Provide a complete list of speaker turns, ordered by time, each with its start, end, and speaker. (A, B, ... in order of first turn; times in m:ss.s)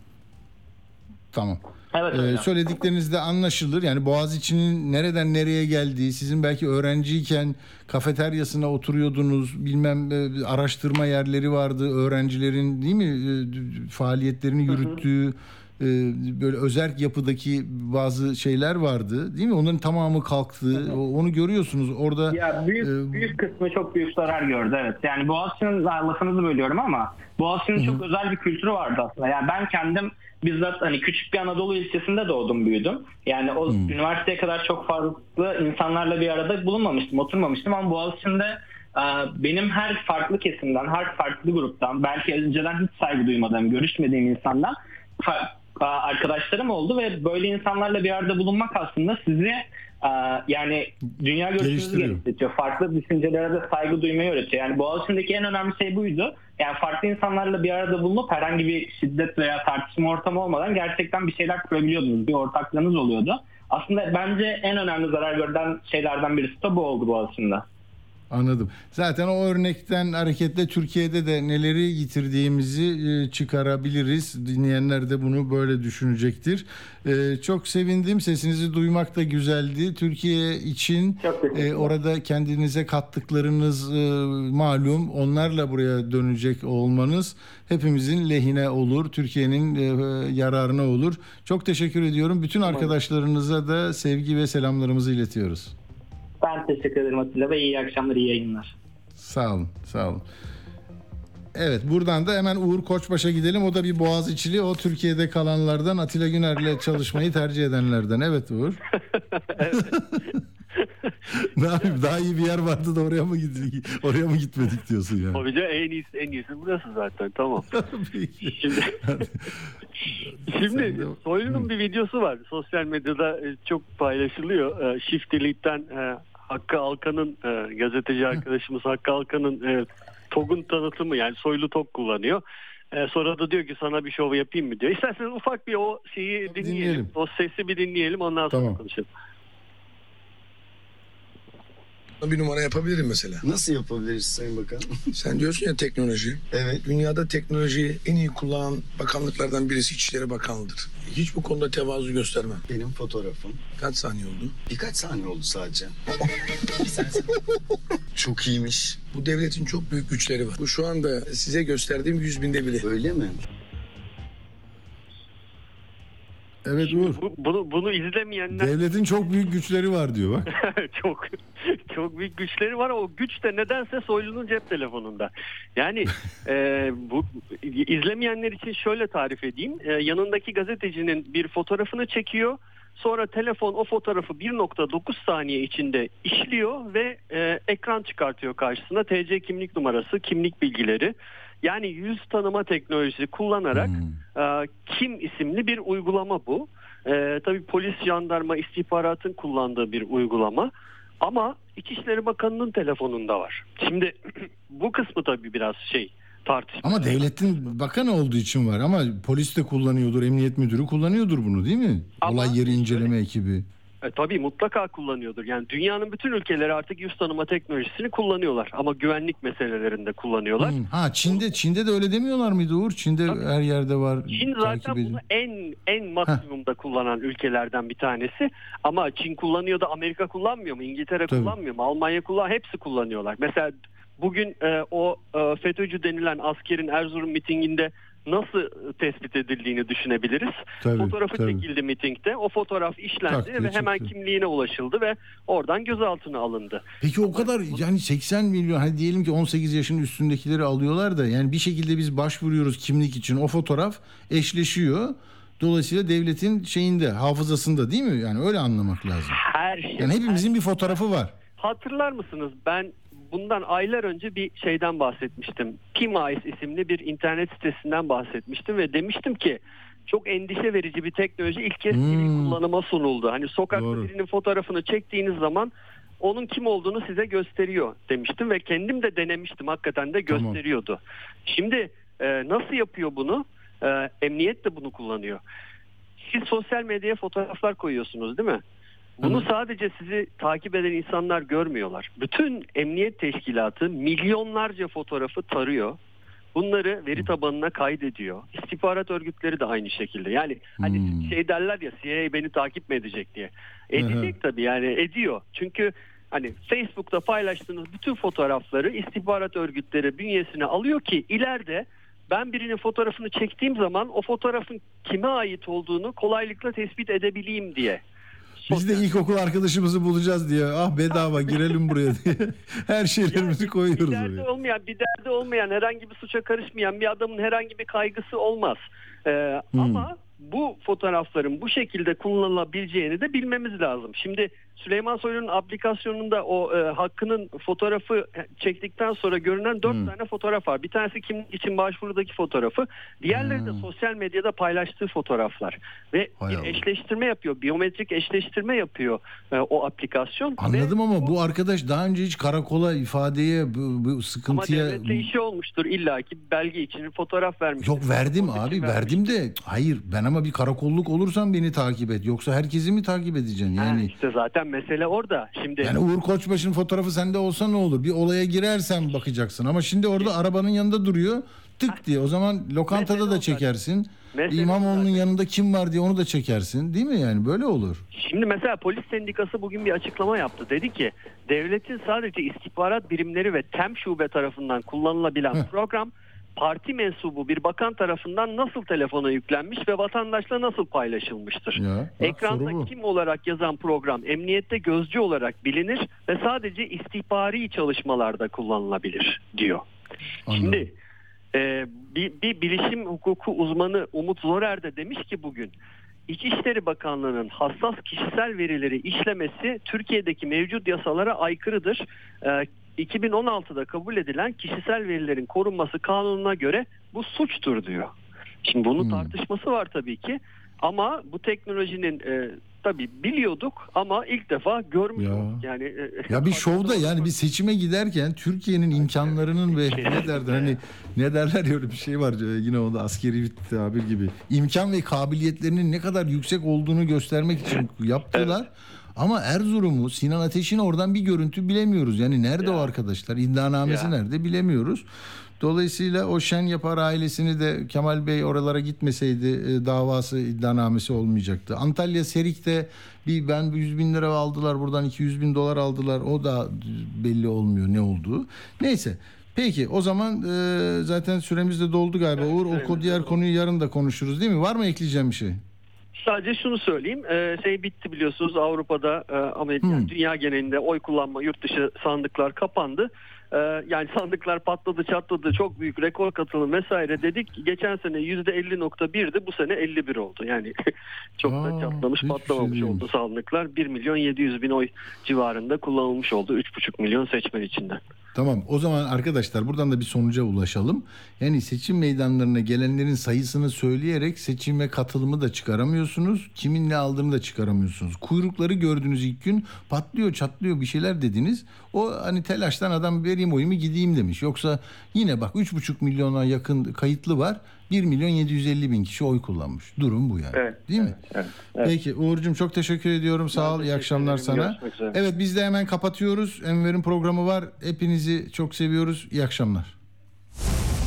0:01.3-0:23.4 A
0:01.9-0:02.5 B
0:14.7-0:15.0 B
0:22.3-1:07.6 B
0:27.8-0:28.0 A
0:51.6-0:52.2 A
1:08.3-1:35.7 A
1:21.2-1:21.9 B
1:32.6-1:32.9 B
1:36.4-1:38.7 B
1:39.2-1:40.2 A
1:41.6-1:48.8 A
1:49.1-1:50.0 C
1:49.7-1:50.4 A
1:50.8-1:51.1 C
1:51.3-1:55.4 A
1:55.3-1:57.7 C
1:57.7-1:59.5 A
1:58.4-1:59.2 C
2:00.5-2:12.4 C
2:00.6-2:01.7 A
2:12.9-2:19.1 C
2:16.5-2:17.1 A
2:18.5-2:18.8 A
2:22.2-2:23.4 D
2:23.4-2:24.9 E
2:25.2-2:32.6 D
2:26.5-2:26.8 E
2:32.7-2:33.6 E
2:33.8-2:34.6 D
2:34.7-2:36.0 E
2:36.8-2:37.3 E
2:38.2-2:39.0 E
2:39.1-2:42.8 D
2:42.8-2:43.4 E
2:46.7-2:47.2 A
2:46.8-2:48.8 C
2:48.5-2:50.5 A
2:50.5-3:20.7 C
3:13.7-3:14.2 A
3:21.2-3:27.5 C
3:26.8-3:33.7 A
3:32.2-3:33.1 C
3:34.1-3:40.8 C
3:40.6-3:45.2 A
3:44.3-4:07.8 C
3:51.3-3:51.6 A
4:00.8-4:01.6 A
4:03.3-4:04.1 A
4:07.0-4:19.4 A
4:19.3-4:20.9 C
4:20.0-4:21.4 A
4:21.6-4:45.4 C
4:31.9-4:32.6 A
4:33.7-4:34.1 A
4:40.3-4:40.6 A
4:46.2-4:48.6 C
4:49.2-4:56.0 C
4:49.2-4:49.5 A
4:56.5-5:18.0 C
5:00.8-5:01.4 A
5:04.0-5:04.3 A
5:18.6-5:19.1 C
5:18.7-5:24.5 A
5:21.1-5:21.9 C
5:23.3-5:51.3 C
5:29.7-5:30.1 A
5:39.8-5:40.1 A
5:43.3-5:43.9 A
5:46.4-5:46.8 A
5:50.6-5:55.3 A
5:54.5-5:59.3 C
5:57.8-6:04.1 A
6:03.8-6:06.0 C
6:05.8-6:18.0 A
6:12.9-6:13.6 C
6:14.3-6:15.3 C
6:18.1-6:39.8 C
6:31.8-6:32.9 A
6:40.5-6:40.9 A
6:40.5-6:40.9 C
6:41.5-6:45.7 C
6:46.3-6:58.1 C
6:58.6-7:07.3 C
6:59.0-6:59.3 A
7:05.2-7:05.6 A
7:06.3-7:25.0 A
7:09.0-7:10.8 C
7:18.3-7:18.6 C
7:22.6-7:22.9 C
7:23.8-7:24.1 C
7:25.6-7:45.6 A
7:42.4-7:43.4 C
7:46.2-8:00.7 C
7:49.8-7:50.1 A
8:01.4-8:08.0 C
8:01.4-8:03.1 A
8:08.4-8:31.2 A
8:30.5-8:31.9 C
8:31.8-8:40.0 A
8:33.5-8:35.2 C